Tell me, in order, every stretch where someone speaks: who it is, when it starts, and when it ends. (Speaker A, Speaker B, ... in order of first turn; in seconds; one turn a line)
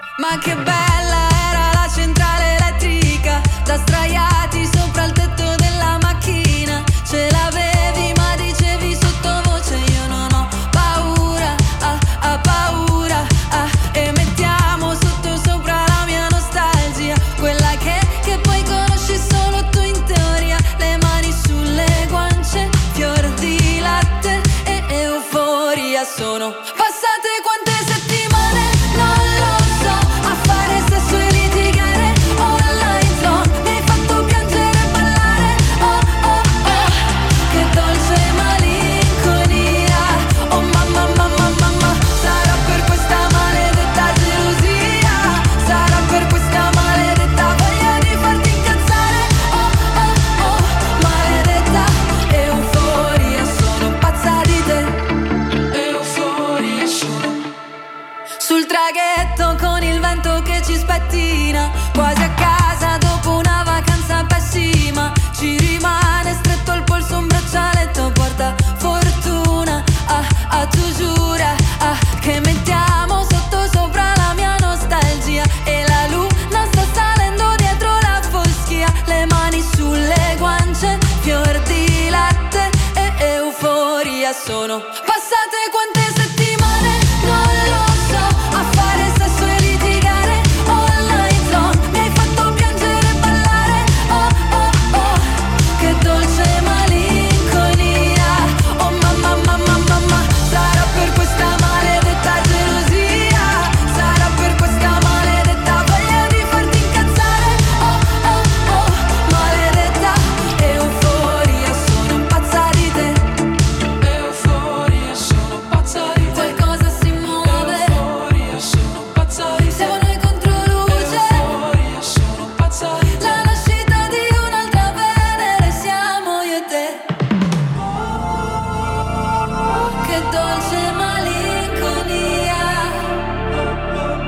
Speaker A: 0.2-55.0
Speaker A: 55.7-57.4
Speaker A: 58.4-113.2
Speaker A: 114.0-127.0
Speaker A: 129.8-133.2